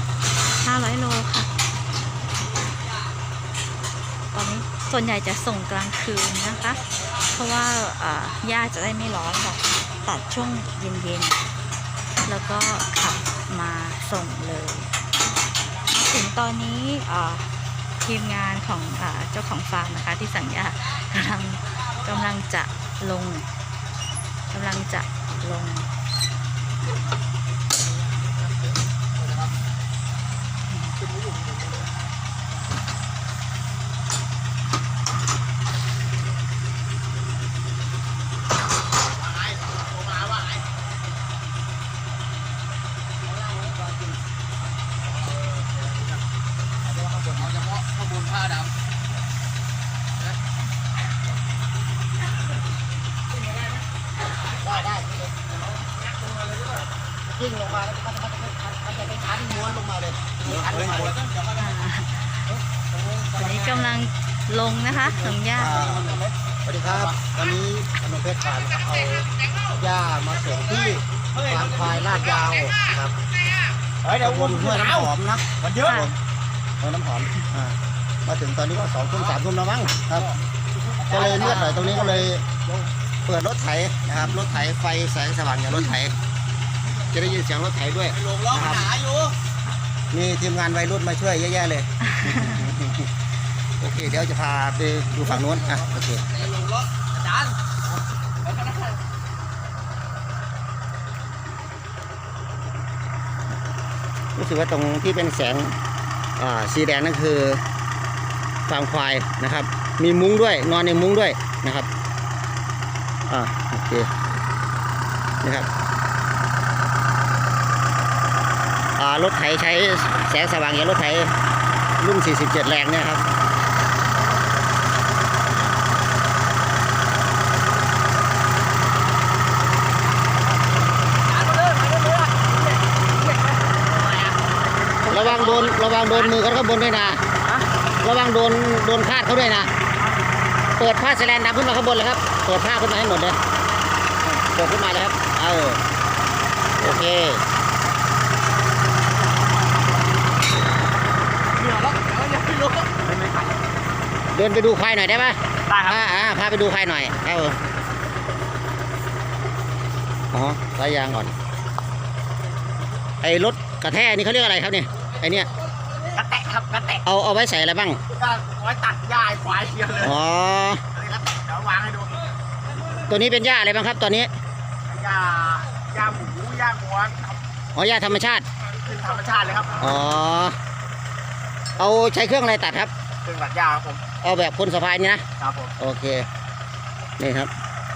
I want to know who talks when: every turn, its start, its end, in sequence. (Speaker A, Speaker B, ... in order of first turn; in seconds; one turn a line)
Speaker A: 0.6-1.5
Speaker A: 4.3-11.4
Speaker A: 12.2-14.9
Speaker A: 15.9-23.4
Speaker A: 24.5-25.9
Speaker A: 30.7-31.0
Speaker B: 39.3-40.6
Speaker C: 43.6-44.0
Speaker C: 46.9-47.6
Speaker C: 54.6-55.3
Speaker C: 57.3-61.2
Speaker B: 60.5-61.3
Speaker A: 61.5-62.3
Speaker A: 63.3-65.8
Speaker C: 65.5-66.1
Speaker B: 65.7-66.3
Speaker C: 66.6-73.2
Speaker B: 66.8-67.3
Speaker B: 71.4-72.4
Speaker B: 74.0-76.1
Speaker C: 74.2-76.1
Speaker A: 75.8-76.1
Speaker C: 76.8-80.3
Speaker B: 81.0-82.3
Speaker C: 81.1-82.4
Speaker C: 83.2-86.2
Speaker C: 87.1-88.9
Speaker B: 88.2-89.3
Speaker C: 90.1-93.1
Speaker A: 92.1-92.7
Speaker C: 93.8-96.3
Speaker C: 104.3-105.8
Speaker C: 106.4-107.6
Speaker C: 108.7-111.9
Speaker C: 113.3-114.1
Speaker C: 115.4-115.7
Speaker C: 119.0-121.3
Speaker C: 122.0-123.2
Speaker B: 131.3-132.5
Speaker B: 133.2-134.4
Speaker B: 135.0-136.4
Speaker C: 135.1-137.2
Speaker C: 138.0-139.7
Speaker C: 140.8-143.4
Speaker C: 144.2-145.8
Speaker C: 146.8-147.4
Speaker B: 151.6-153.6
Speaker C: 154.3-157.6
Speaker B: 155.7-156.0
Speaker C: 160.3-161.3
Speaker C: 163.2-165.5
Speaker B: 166.1-167.0
Speaker C: 167.0-168.0
Speaker B: 168.1-170.2
Speaker C: 170.0-170.8
Speaker B: 170.9-172.2
Speaker C: 173.1-174.3
Speaker B: 174.9-177.4
Speaker C: 177.7-178.4
Speaker B: 178.8-179.9
Speaker C: 179.8-180.6
Speaker C: 181.8-182.9
Speaker B: 183.2-184.0
Speaker C: 184.2-185.2
Speaker B: 185.4-185.7
Speaker C: 185.8-186.3
Speaker C: 187.2-187.5